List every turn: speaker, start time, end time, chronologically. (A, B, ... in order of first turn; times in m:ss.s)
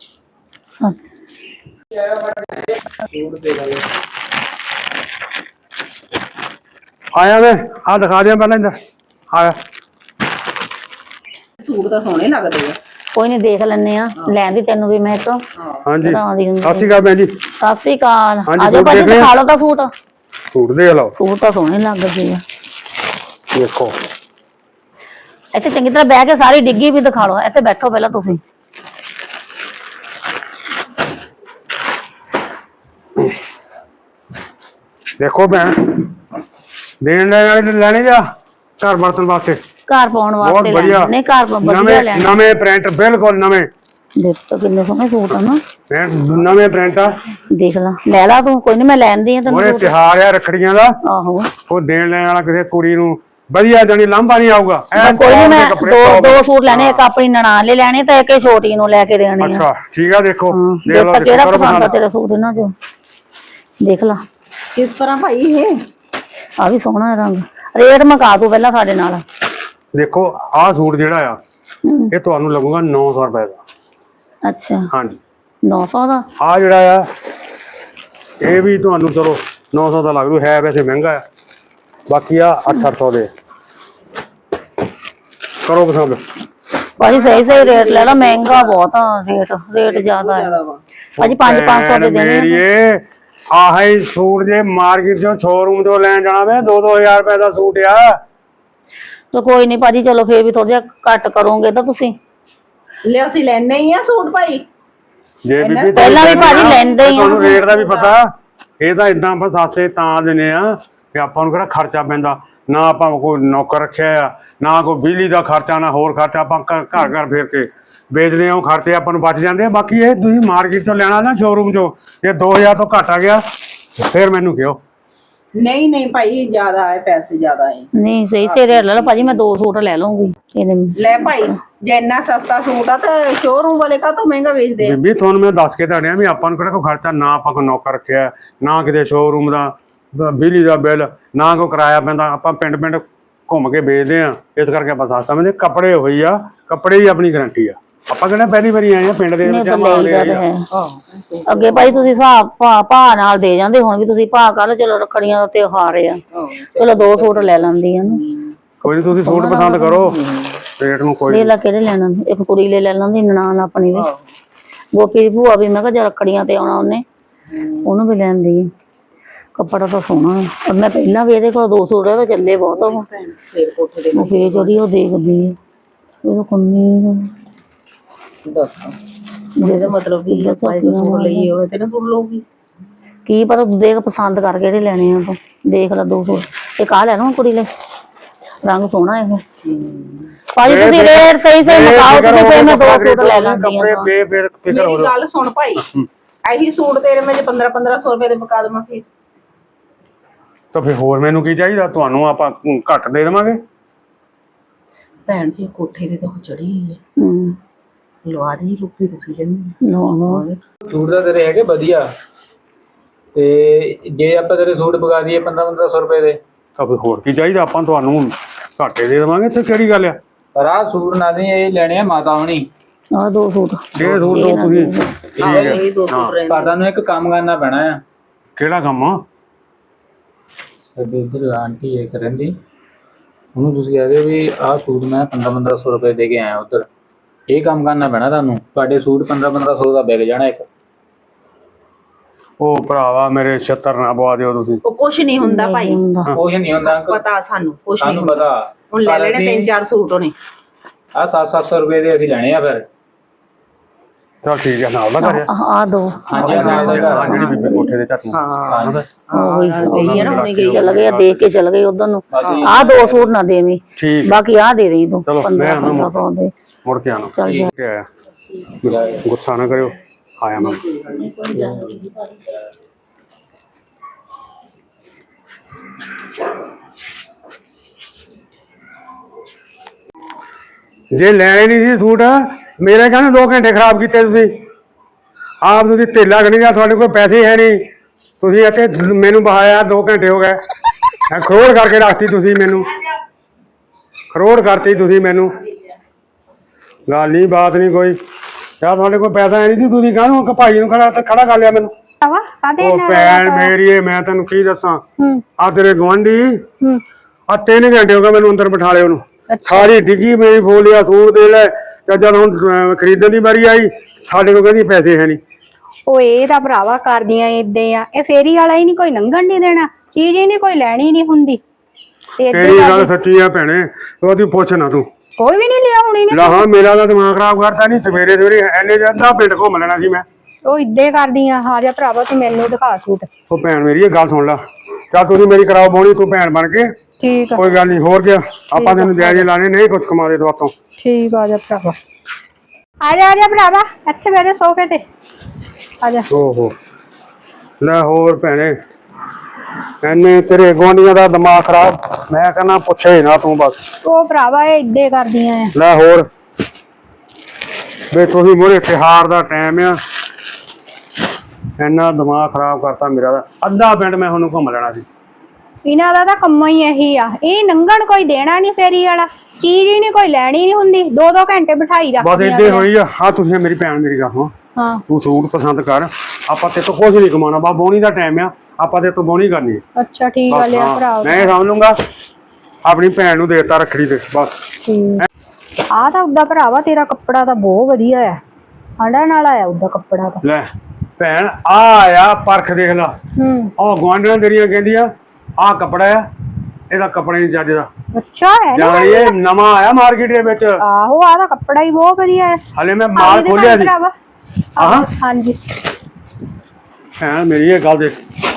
0:02.0-0:03.8 A
0:07.1-0:08.7 B
0:11.6-0:12.8 C
0:13.1-0:15.4 D
0:15.8-0:17.3 B
0:16.0-0:16.9 D
0:17.6-0:19.9 D
0:18.5-0:19.3 B
0:20.5-0:21.1 B
0:21.2-0:22.4 D
0:23.5-0:23.9 B
0:25.5-0:28.4 D
0:35.2-0:36.0 B
0:37.0-0:38.2 B
0:38.8-0:39.6 B
0:39.9-0:42.4 D
0:40.4-0:43.7 B
0:44.2-0:45.6 D
0:45.9-0:47.2 B
0:47.5-0:49.9 D
0:49.5-0:50.9 B
0:51.0-0:51.5 D
0:51.7-0:57.0 B
0:55.0-0:59.6 D
0:59.4-1:02.0 B
1:00.5-1:02.7 D
1:03.8-1:04.2 D
1:04.7-1:05.8 C
1:06.6-1:09.2 D
1:09.9-1:11.4 B
1:11.8-1:12.1 D
1:12.1-1:13.6 B
1:14.4-1:14.9 D
1:14.9-1:15.2 B
1:15.6-1:16.2 D
1:16.4-1:17.0 B
1:18.4-1:21.2 B
1:22.1-1:23.3 B
1:25.6-1:26.2 B
1:27.0-1:30.6 D
1:27.0-1:28.8 C
1:29.8-1:30.8 C
1:31.2-1:32.6 D
1:31.2-1:38.2 B
1:39.3-1:42.2 D
1:43.0-1:44.6 C
1:45.4-1:48.3 B
1:45.6-1:48.1 C
1:45.9-1:47.6 D
1:48.8-2:03.4 B
2:04.0-2:04.8 B
2:05.5-2:07.9 C
2:08.0-2:11.5 D
2:08.4-2:09.4 C
2:11.0-2:15.0 C
2:14.8-2:30.4 B
2:29.4-2:30.6 D
2:30.7-2:32.2 C
2:31.5-2:36.2 D
2:36.3-2:37.5 C
2:36.8-2:38.2 D
2:38.1-2:38.5 C
2:38.8-2:40.2 B
2:39.2-2:40.0 D
2:39.3-2:40.6 C
2:40.8-2:41.5 B
2:41.3-2:44.1 D
2:43.9-2:44.3 C
2:44.9-2:47.0 D
2:47.5-2:47.9 C
2:47.8-2:48.7 D
2:49.5-2:53.0 D
2:52.7-2:54.7 C
2:54.1-2:55.6 D
2:56.2-2:57.3 D
2:58.4-2:59.0 C
2:59.6-3:01.5 D
2:59.6-3:02.4 C
3:03.2-3:07.7 D
3:08.6-3:09.4 D
3:09.6-3:10.3 C
3:10.5-3:14.1 D
3:10.6-3:15.1 B
3:14.7-3:15.8 C
3:15.8-3:16.1 B
3:16.4-3:19.0 C
3:20.7-3:23.6 B
3:25.2-3:27.0 C
3:27.2-3:27.6 D
3:28.2-3:30.6 C
3:29.8-3:30.4 D
3:30.9-3:32.0 A
3:33.3-3:36.4 A
3:36.8-3:40.2 B
3:40.5-3:42.7 A
3:43.1-3:45.1 D
3:44.0-3:44.5 A
3:44.0-3:46.3 B
3:45.4-3:45.8 A
3:45.4-3:46.7 C
3:46.4-3:48.0 A
3:48.5-3:49.2 B
3:50.9-3:52.5 A
3:53.5-3:56.8 A
3:57.5-4:00.7 A
4:02.6-4:04.8 B
4:04.8-4:06.0 C
4:05.4-4:06.3 D
4:06.3-4:07.2 A
4:06.7-4:10.3 C
4:08.0-4:09.7 A
4:11.2-4:12.8 A
4:14.4-4:15.5 B
4:15.2-4:17.9 D
4:16.3-4:17.6 A
4:16.4-4:19.0 B
4:18.3-4:20.8 C
4:18.7-4:19.0 A
4:19.3-4:26.5 D
4:19.8-4:21.5 B
4:22.3-4:23.3 A
4:24.0-4:24.3 B
4:25.3-4:26.2 B
4:26.8-4:28.1 B
4:27.4-4:27.7 D
4:28.8-4:30.8 B
4:28.8-4:29.2 A
4:30.9-4:32.3 D
4:41.1-4:44.5 B
4:45.6-4:47.8 B
4:48.4-4:50.6 B
4:51.3-4:52.9 B
4:54.3-4:55.5 B
4:57.1-4:58.2 B
4:58.8-5:01.9 B
5:02.2-5:03.7 E
5:02.8-5:05.0 B
5:05.6-5:06.6 B
5:07.5-5:15.4 B
5:09.5-5:09.9 E
5:16.1-5:21.6 E
5:22.4-5:23.1 E
5:22.5-5:25.1 B
5:25.4-5:26.6 E
5:26.3-5:30.2 B
5:30.6-5:33.3 E
5:33.5-5:34.6 B
5:35.1-5:36.9 B
5:37.2-5:37.7 E
5:37.6-5:40.7 B
5:38.7-5:39.4 E
5:41.0-5:42.0 E
5:43.0-5:45.0 E
5:46.0-5:46.3 E
5:46.3-5:46.7 B
5:47.8-5:48.8 B
5:50.0-5:53.8 B
5:54.0-5:55.7 E
5:55.7-5:56.3 B
5:58.1-6:00.0 B
6:01.8-6:05.0 B
6:05.8-6:12.9 E
6:12.2-6:14.5 B
6:14.8-6:15.0 E
6:15.1-6:19.8 B
6:20.0-6:21.5 E
6:20.5-6:22.0 B
6:22.8-6:24.6 B
6:24.8-6:25.2 E
6:25.9-6:28.4 E
6:29.0-6:30.4 E
6:31.2-6:33.1 B
6:33.4-6:33.7 E
6:33.8-6:36.2 B
6:36.9-6:37.9 B
6:38.1-6:39.3 E
6:38.7-6:40.8 B
6:40.8-6:42.6 E
6:42.7-6:43.9 B
6:43.1-6:44.1 E
6:44.8-6:45.6 E
6:44.8-6:45.1 B
6:47.2-6:48.2 B